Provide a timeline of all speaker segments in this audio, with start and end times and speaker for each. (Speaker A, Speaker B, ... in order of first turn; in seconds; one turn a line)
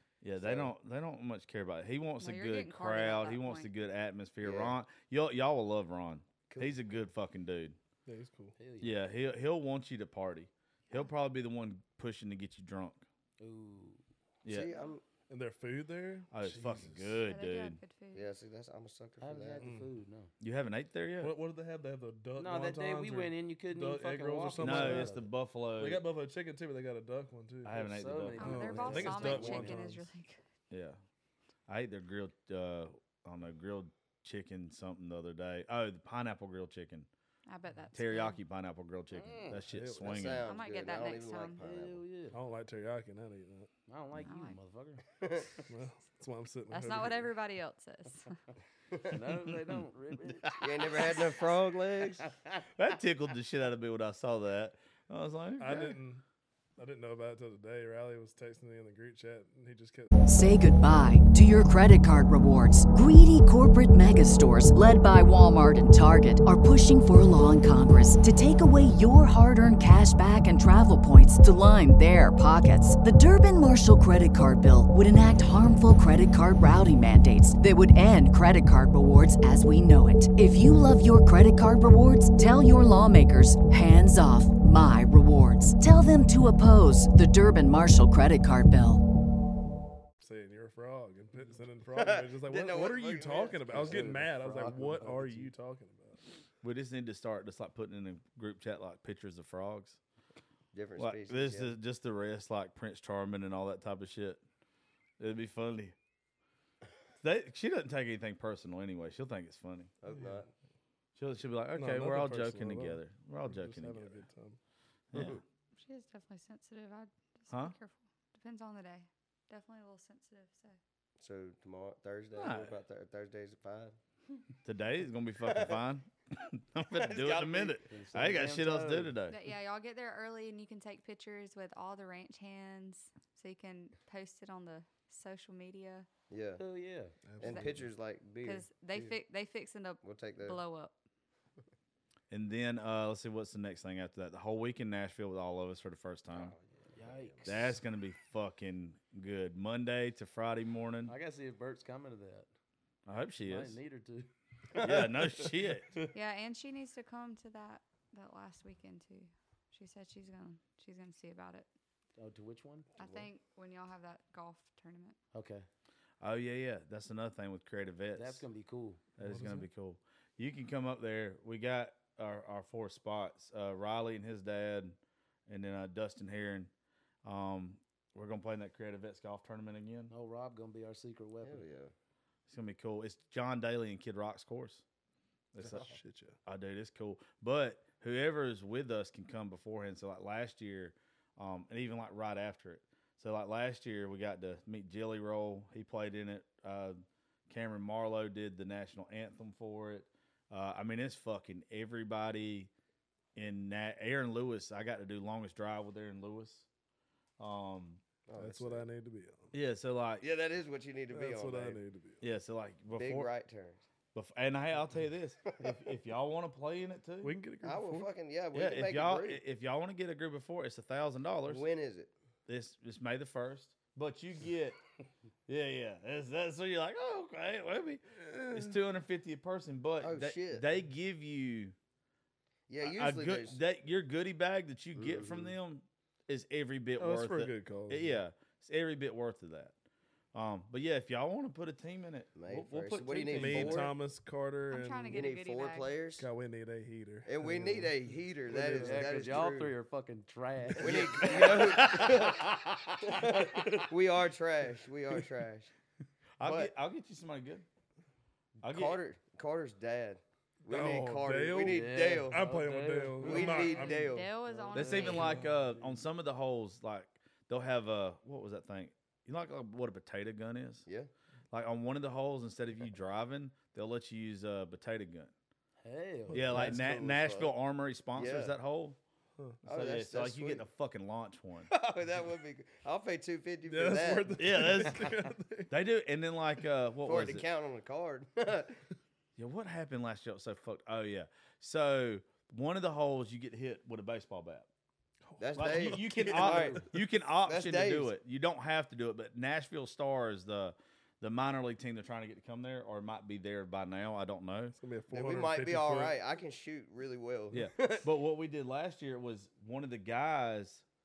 Speaker A: 0.2-7.8
Speaker B: 0.4-0.7
Speaker C: 2.2-3.7
Speaker B: 4.4-4.8
Speaker B: 6.5-6.8
Speaker D: 8.1-8.5
Speaker E: 8.6-9.0
Speaker A: 8.8-13.0
Speaker E: 13.4-14.0
Speaker A: 14.4-14.7
Speaker B: 14.4-15.0
Speaker D: 15.3-17.2
Speaker A: 16.3-17.8
Speaker C: 17.2-18.3
Speaker B: 18.1-19.6
Speaker E: 19.2-20.3
Speaker D: 19.6-19.9
Speaker A: 20.4-21.4
Speaker D: 21.2-25.1
Speaker E: 22.4-25.3
Speaker A: 24.6-26.0
Speaker D: 25.8-30.1
Speaker A: 27.6-28.4
Speaker E: 27.8-29.8
Speaker C: 28.4-30.4
Speaker A: 30.7-31.0
Speaker A: 31.7-37.1
Speaker C: 37.5-38.4
Speaker A: 37.9-40.5
Speaker E: 39.1-39.6
Speaker D: 39.7-40.3
Speaker B: 40.0-42.0
Speaker C: 40.4-41.6
Speaker E: 41.6-42.4
Speaker D: 42.3-43.7
Speaker E: 43.9-45.0
Speaker C: 44.2-44.6
Speaker B: 45.2-45.6
Speaker D: 45.7-47.3
Speaker C: 46.7-48.4
Speaker E: 49.1-50.5
Speaker A: 50.4-51.1
Speaker B: 50.6-52.2
Speaker E: 52.2-52.6
Speaker A: 52.8-56.0
Speaker D: 55.6-56.2
Speaker D: 56.8-60.1
Speaker F: 60.2-89.0
Speaker D: 90.2-96.2
Speaker B: 91.9-94.2
Speaker E: 93.7-95.5
Speaker A: 96.6-100.0
Speaker B: 100.7-101.7
Speaker A: 101.0-104.4
Speaker A: 105.2-105.9
Speaker A: 107.2-109.9
Speaker B: 110.0-110.5
Speaker D: 110.1-110.5
Speaker A: 111.2-114.2
Speaker D: 111.8-114.6
Speaker A: 115.1-115.4
Speaker B: 115.1-115.4
Speaker C: 115.7-120.8
Speaker B: 121.2-124.0
Speaker A: 122.3-122.7
Speaker A: 124.6-129.4
Speaker B: 125.4-125.8
Speaker B: 126.9-127.8
Speaker E: 127.9-129.2
Speaker C: 129.3-136.1
Speaker B: 136.3-136.6
Speaker E: 136.6-137.2
Speaker D: 137.3-137.8
Speaker B: 137.4-139.1
Speaker C: 137.4-137.7
Speaker C: 138.4-140.9
Speaker B: 140.0-140.6
Speaker A: 142.3-146.5
Speaker B: 146.3-147.7
Speaker E: 146.9-147.7
Speaker A: 147.4-151.1
Speaker E: 151.1-152.5
Speaker A: 153.1-153.8
Speaker E: 153.4-155.1
Speaker A: 154.8-155.9
Speaker C: 156.1-161.7
Speaker E: 162.2-162.9
Speaker C: 163.0-165.2
Speaker B: 163.0-163.3
Speaker E: 165.3-165.7
Speaker A: 166.2-168.4
Speaker E: 168.1-169.0
Speaker A: 169.2-174.9
Speaker D: 169.2-169.7
Speaker A: 175.5-176.7
Speaker A: 177.2-180.1
Speaker E: 180.1-181.6
Speaker B: 181.4-181.9
Speaker A: 182.5-184.8
Speaker A: 185.5-185.9
Speaker D: 185.6-186.4
Speaker A: 186.4-202.7
Speaker A: 203.3-206.7
Speaker A: 207.4-208.0
Speaker B: 208.3-208.8
Speaker D: 208.4-209.5
Speaker A: 209.5-210.2
Speaker B: 210.2-211.8
Speaker D: 211.1-212.2
Speaker A: 212.2-213.3
Speaker B: 212.9-213.8
Speaker A: 214.1-217.4
Speaker D: 217.2-218.1
Speaker B: 217.6-219.4
Speaker A: 218.5-221.6
Speaker B: 221.5-222.1
Speaker A: 222.5-224.8
Speaker A: 225.5-231.7
Speaker D: 228.2-228.8
Speaker B: 230.0-230.7
Speaker B: 232.7-233.6
Speaker A: 232.8-239.7
Speaker B: 234.9-235.5
Speaker D: 237.0-238.2
Speaker A: 240.3-243.9
Speaker B: 242.3-243.9
Speaker D: 243.1-245.3
Speaker C: 244.7-246.0
Speaker B: 245.1-246.2
Speaker D: 246.2-247.9
Speaker B: 247.2-249.7
Speaker D: 248.5-249.2
Speaker E: 248.8-251.6
Speaker B: 250.8-255.7
Speaker A: 251.2-253.1
Speaker A: 256.4-257.6
Speaker B: 256.4-256.7
Speaker A: 258.6-259.0
Speaker B: 258.6-262.4
Speaker D: 260.6-264.1
Speaker E: 261.6-266.0
Speaker B: 263.2-264.3
Speaker C: 263.7-265.4
Speaker A: 264.7-270.8
Speaker A: 271.5-275.3
Speaker E: 275.8-276.7
Speaker D: 276.3-276.9
Speaker A: 276.3-279.0
Speaker B: 276.5-277.5
Speaker B: 278.1-278.5
Speaker A: 279.6-281.7
Speaker B: 279.6-280.6
Speaker B: 281.7-284.4
Speaker D: 283.7-285.7
Speaker A: 284.4-285.1
Speaker A: 285.7-287.4
Speaker B: 287.0-288.8
Speaker A: 289.4-294.6
Speaker D: 295.2-296.7
Speaker B: 295.4-296.9
Speaker A: 295.6-304.8
Speaker B: 297.4-298.1
Speaker D: 304.7-306.1
Speaker B: 305.1-308.1
Speaker A: 307.5-310.8